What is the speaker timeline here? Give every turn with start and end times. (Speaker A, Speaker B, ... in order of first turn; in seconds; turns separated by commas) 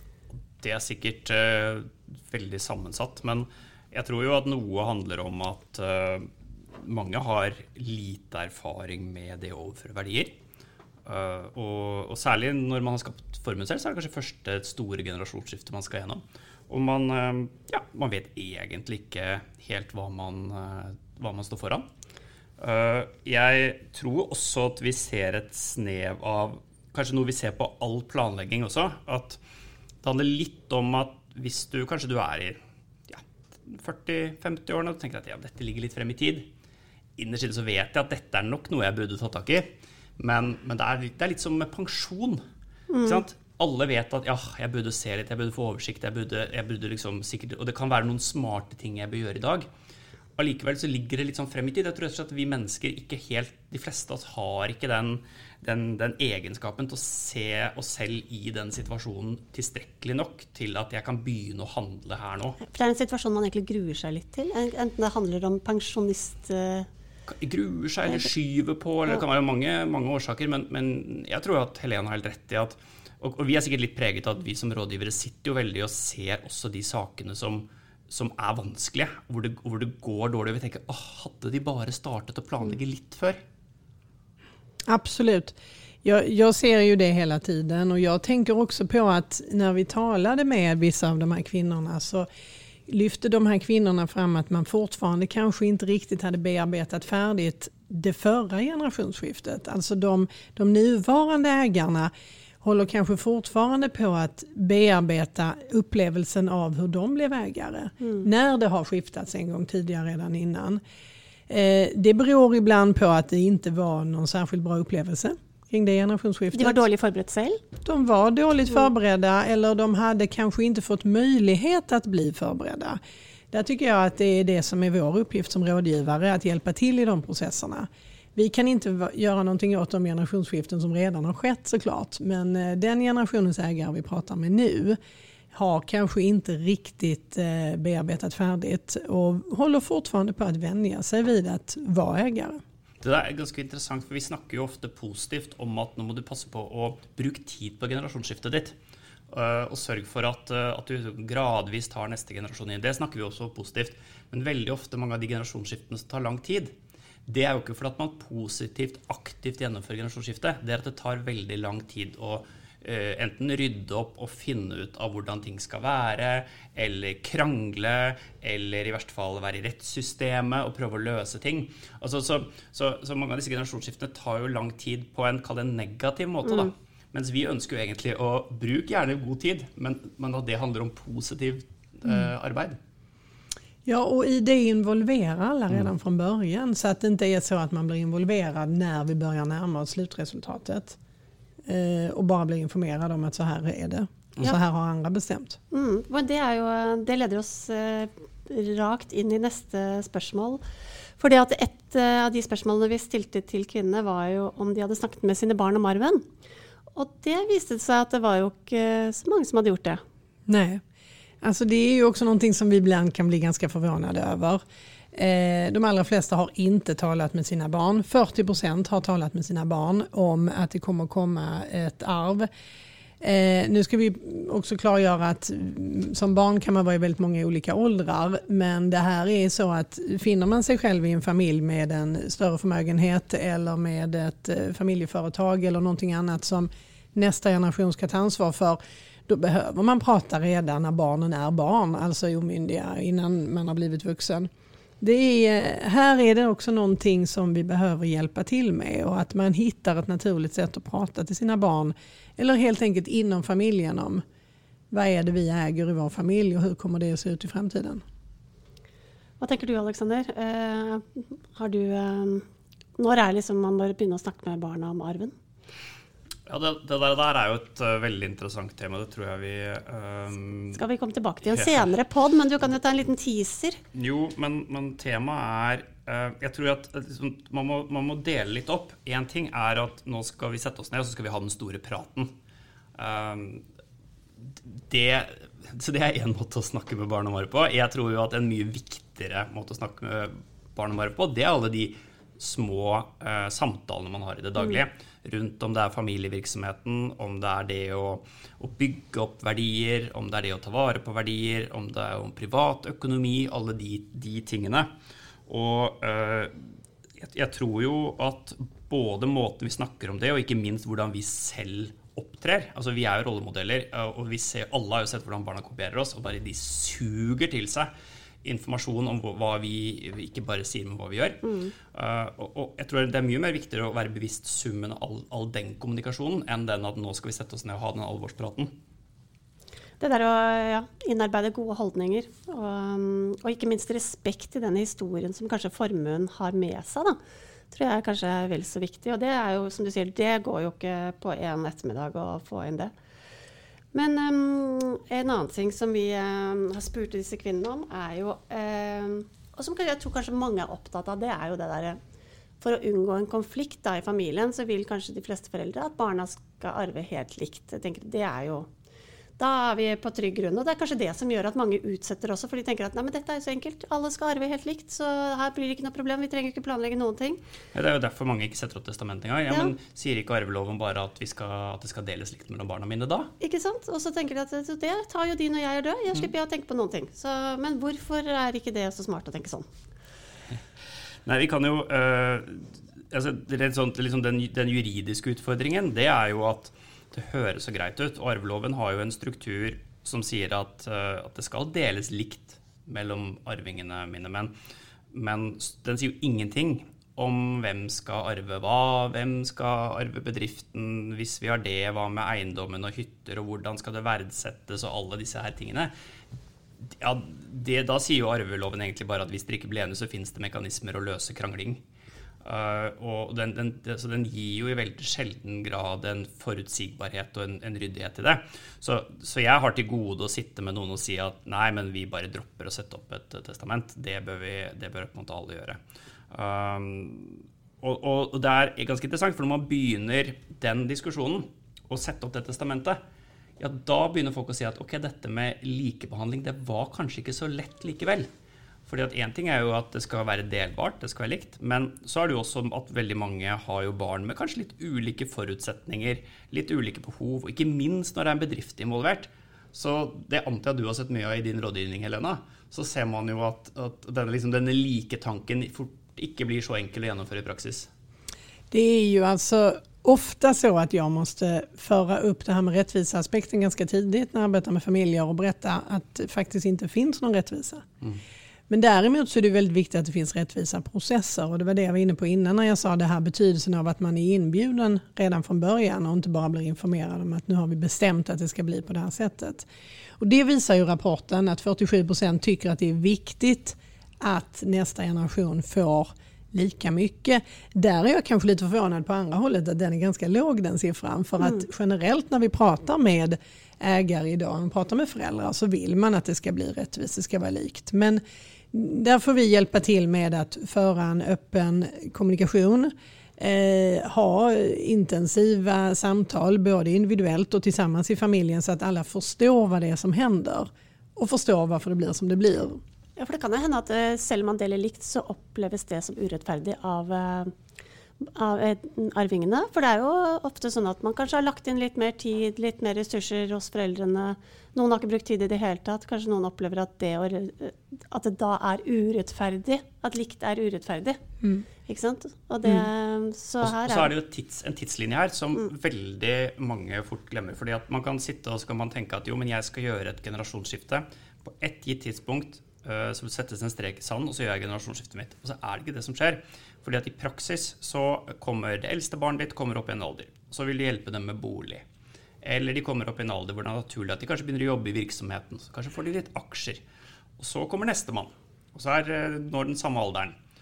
Speaker A: 0.6-10.3, Speaker A: 11.1-21.8, Speaker A: 22.6-29.4, Speaker A: 30.0-32.6, Speaker A: 33.1-36.5, Speaker A: 37.2-42.4, Speaker B: 42.9-43.2, Speaker A: 43.0-49.7, Speaker A: 50.4-62.6, Speaker B: 62.6-66.9, Speaker A: 67.3-83.4, Speaker C: 84.9-92.3, Speaker C: 92.9-102.1, Speaker C: 102.6-110.8, Speaker C: 111.5-116.8, Speaker B: 116.5-117.6, Speaker C: 117.8-123.0, Speaker C: 123.5-135.0, Speaker C: 135.5-142.6, Speaker A: 143.0-148.7, Speaker A: 149.3-156.7, Speaker A: 157.3-182.8, Speaker B: 176.4-176.7, Speaker C: 183.8-191.0, Speaker C: 191.7-195.6, Speaker B: 195.7-200.6, Speaker B: 201.2-206.2, Speaker B: 206.9-210.0, Speaker C: 210.5-210.8, Speaker C: 211.4-214.6, Speaker C: 215.1-222.5, Speaker C: 223.2-244.5, Speaker C: 245.0-254.2, Speaker C: 254.9-258.0, Speaker B: 259.4-262.4, Speaker B: 263.0-265.3, Speaker A: 266.5-270.8, Speaker B: 270.7-273.8, Speaker A: 273.9-282.3, Speaker A: 283.0-283.6, Speaker A: 284.7-304.9, Speaker A: 305.5-306.5, Speaker A: 307.2-317.9, Speaker A: 318.4-321.4, Speaker B: 321.4-321.7, Speaker A: 321.9-328.7, Speaker B: 330.0-337.2, Speaker B: 337.7-342.9, Speaker B: 343.9-352.0, Speaker B: 352.6-358.7, Speaker B: 359.4-367.4, Speaker A: 367.7-373.3, Speaker B: 373.4-379.6, Speaker A: 381.2-394.5, Speaker A: 395.1-405.9, Speaker A: 407.0-411.8, Speaker A: 412.4-425.8, Speaker A: 426.3-433.0, Speaker A: 433.6-438.3, Speaker A: 438.9-457.9, Speaker C: 458.7-467.8, Speaker C: 468.7-479.7, Speaker C: 480.2-498.2, Speaker C: 498.7-512.8, Speaker B: 513.2-517.5, Speaker B: 518.2-531.2, Speaker B: 531.8-534.1, Speaker A: 533.6-551.8, Speaker A: 552.4-556.8, Speaker A: 557.4-560.3